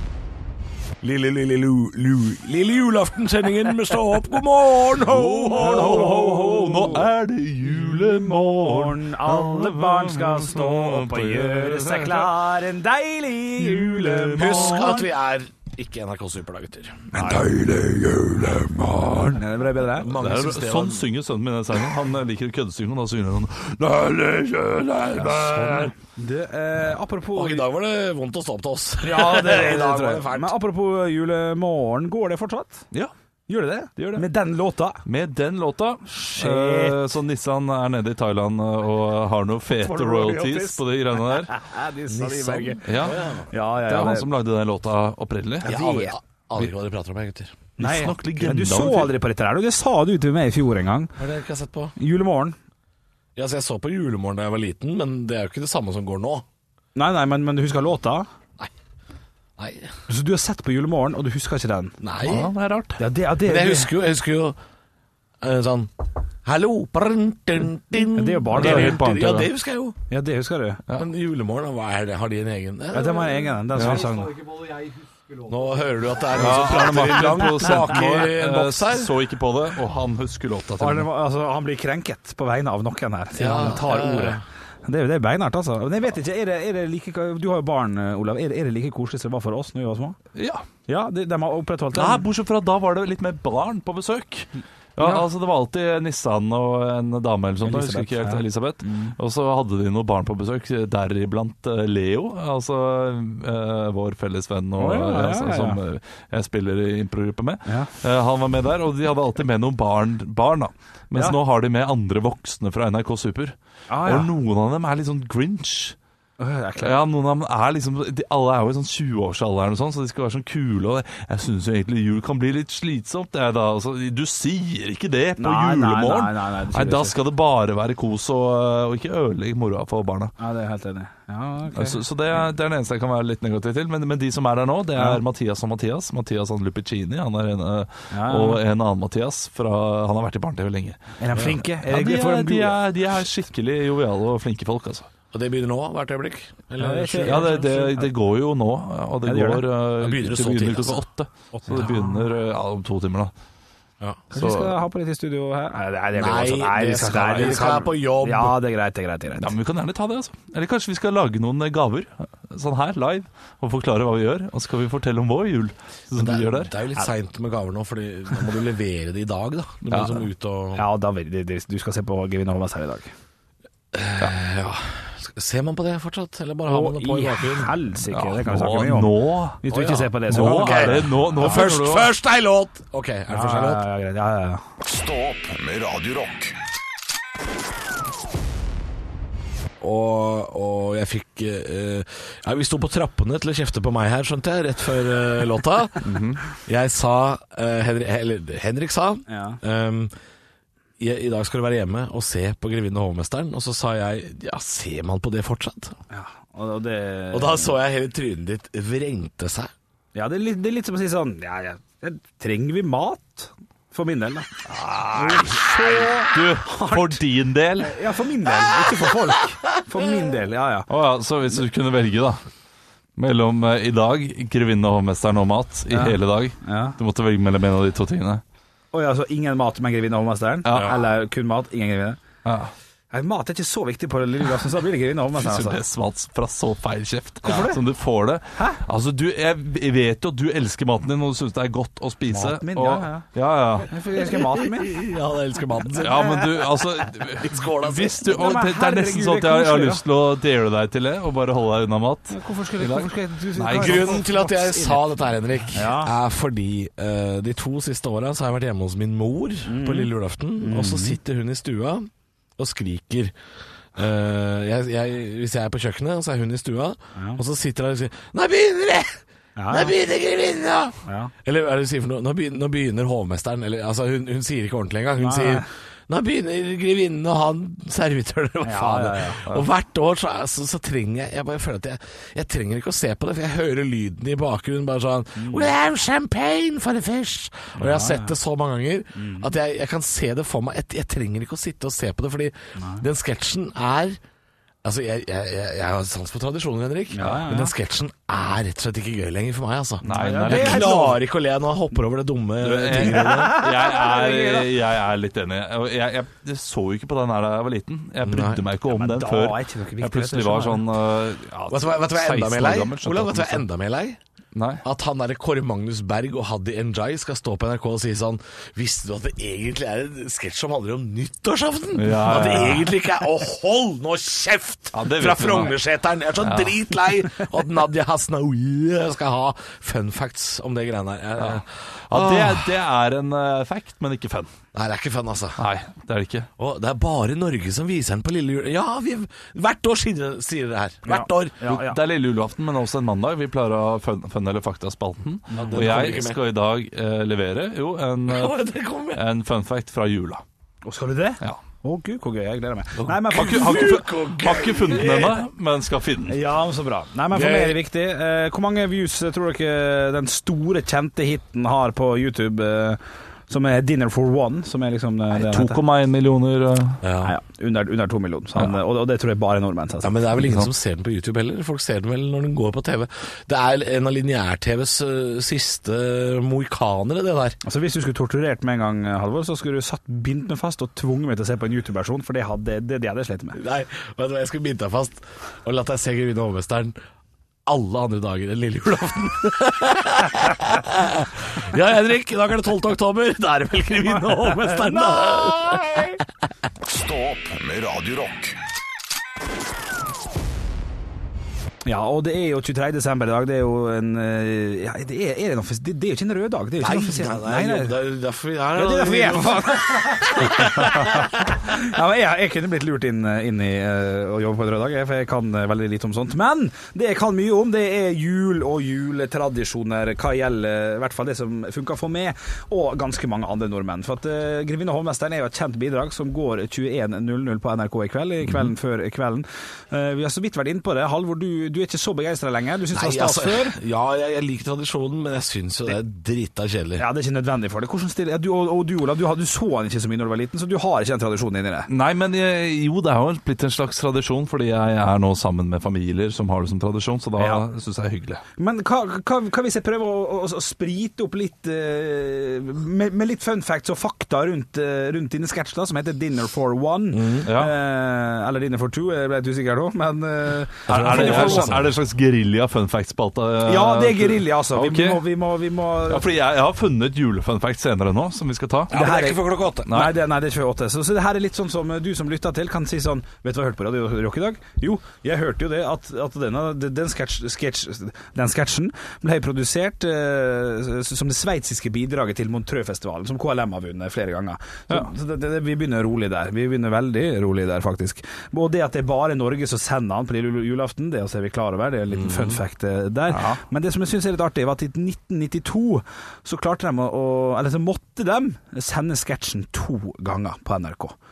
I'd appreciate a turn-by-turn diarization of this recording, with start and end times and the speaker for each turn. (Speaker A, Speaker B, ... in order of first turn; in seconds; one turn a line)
Speaker A: 1.0-6.4
Speaker B: 5.1-12.3
Speaker C: 5.5-15.1
Speaker B: 13.6-15.0
Speaker A: 14.3-17.1
Speaker C: 17.1-17.5
Speaker B: 17.1-19.4
Speaker C: 19.1-20.1
Speaker A: 20.0-21.1
Speaker B: 20.1-25.9
Speaker A: 25.1-25.9
Speaker C: 25.6-27.7
Speaker A: 27.3-30.6
Speaker C: 29.0-32.8
Speaker C: 33.5-35.0
Speaker B: 34.0-34.2
Speaker B: 35.0-41.5
Speaker C: 36.1-37.1
Speaker C: 39.8-43.0
Speaker A: 42.1-43.5
Speaker B: 42.9-43.2
Speaker C: 43.5-44.3
Speaker B: 43.8-45.8
Speaker C: 45.6-46.1
Speaker A: 45.6-47.6
Speaker C: 47.8-51.2
Speaker B: 47.8-49.1
Speaker A: 51.2-52.0
Speaker C: 52.0-52.6
Speaker A: 53.4-56.5
Speaker C: 57.0-58.3
Speaker A: 59.6-59.9
Speaker C: 60.1-62.0
Speaker A: 62.0-62.5
Speaker B: 62.2-63.0
Speaker C: 63.0-63.9
Speaker A: 63.4-64.6
Speaker A: 65.4-70.0
Speaker C: 68.1-69.1
Speaker B: 68.5-69.5
Speaker C: 70.1-70.8
Speaker A: 70.9-73.5
Speaker C: 72.9-74.6
Speaker B: 73.8-74.1
Speaker A: 75.3-79.1
Speaker B: 76.3-81.1
Speaker C: 80.8-90.2
Speaker A: 83.3-84.4
Speaker B: 90.3-90.7
Speaker C: 90.9-92.2
Speaker B: 91.9-116.0
Speaker C: 95.0-95.2
Speaker C: 97.6-99.2
Speaker C: 104.8-105.8
Speaker C: 113.9-114.3
Speaker C: 116.4-117.0
Speaker B: 116.8-130.3
Speaker C: 125.4-127.2
Speaker C: 130.4-132.0
Speaker B: 131.8-145.1
Speaker C: 135.0-135.2
Speaker C: 138.1-138.6
Speaker C: 141.2-142.8
Speaker A: 145.3-147.6
Speaker C: 146.8-148.1
Speaker B: 147.2-153.3
Speaker C: 149.2-149.7
Speaker A: 150.0-151.0
Speaker C: 151.5-152.2
Speaker C: 154.3-159.5
Speaker B: 154.3-154.8
Speaker A: 156.2-158.6
Speaker B: 159.4-166.7
Speaker A: 166.2-170.8
Speaker B: 169.9-170.2
Speaker C: 170.8-173.1
Speaker A: 173.9-177.8
Speaker C: 176.7-181.7
Speaker B: 178.1-179.6
Speaker A: 179.7-183.8
Speaker B: 180.3-182.1
Speaker C: 183.3-184.6
Speaker D: 184.8-186.6
Speaker A: 189.8-200.1
Speaker B: 196.0-196.4
Speaker C: 199.3-199.6
Speaker A: 201.0-206.0
Speaker C: 206.1-207.8
Speaker A: 207.3-209.7
Speaker C: 210.2-217.2
Speaker B: 215.4-218.0
Speaker C: 217.8-220.9
Speaker B: 220.9-222.4
Speaker B: 223.2-228.4
Speaker C: 225.9-227.0
Speaker C: 228.9-232.2
Speaker B: 230.7-231.0
Speaker A: 230.7-231.0
Speaker B: 232.4-232.7
Speaker C: 233.1-235.8
Speaker B: 235.4-243.9
Speaker C: 237.4-237.8
Speaker C: 238.6-238.8
Speaker C: 242.3-243.3
Speaker C: 243.9-245.0
Speaker A: 244.2-248.3
Speaker B: 246.0-254.2
Speaker C: 248.2-250.0
Speaker C: 252.3-255.0
Speaker A: 253.7-263.3
Speaker C: 255.7-256.1
Speaker C: 259.7-261.2
Speaker A: 263.9-294.2
Speaker C: 269.6-269.9
Speaker C: 271.1-271.3
Speaker C: 275.2-275.7
Speaker C: 278.6-279.4
Speaker C: 285.4-285.7
Speaker C: 287.8-288.3
Speaker C: 289.2-289.5
Speaker C: 292.8-293.0
Speaker A: 294.8-303.6
Speaker C: 297.1-297.7
Speaker C: 300.0-301.2
Speaker B: 300.0-300.9
Speaker B: 302.6-313.6
Speaker C: 303.1-304.7
Speaker A: 308.2-308.6
Speaker C: 308.9-310.9
Speaker A: 311.7-314.2
Speaker B: 314.5-314.8
Speaker A: 314.8-332.7
Speaker B: 321.9-323.0
Speaker B: 324.9-325.8
Speaker B: 326.4-326.8
Speaker B: 331.4-334.5
Speaker A: 334.7-335.6
Speaker B: 335.6-336.5
Speaker A: 336.6-341.6
Speaker C: 341.1-342.0
Speaker B: 341.6-348.6
Speaker C: 345.5-345.9
Speaker A: 345.6-346.4
Speaker A: 348.3-349.2
Speaker B: 349.1-350.4
Speaker C: 350.9-353.9
Speaker A: 353.0-355.5
Speaker B: 353.3-356.4
Speaker C: 356.3-365.8
Speaker A: 357.3-357.8
Speaker B: 365.3-367.0
Speaker A: 367.0-367.3
Speaker C: 367.2-370.2
Speaker A: 370.0-377.6
Speaker B: 370.4-370.7
Speaker C: 377.6-383.6
Speaker A: 383.5-387.0
Speaker A: 387.7-396.1
Speaker C: 394.3-396.2
Speaker D: 396.8-398.6
Speaker C: 401.9-408.0
Speaker A: 406.8-411.0
Speaker C: 408.8-433.8
Speaker A: 432.9-437.0
Speaker C: 437.0-441.9
Speaker B: 441.9-448.4
Speaker C: 447.4-447.6
Speaker C: 448.6-461.8
Speaker A: 457.1-457.5
Speaker B: 457.5-457.8
Speaker A: 460.9-461.9
Speaker B: 460.9-465.2
Speaker C: 463.6-466.2
Speaker B: 466.1-468.9
Speaker A: 468.9-469.9
Speaker C: 468.9-501.1
Speaker B: 469.9-470.2
Speaker A: 492.1-492.6
Speaker B: 493.3-493.6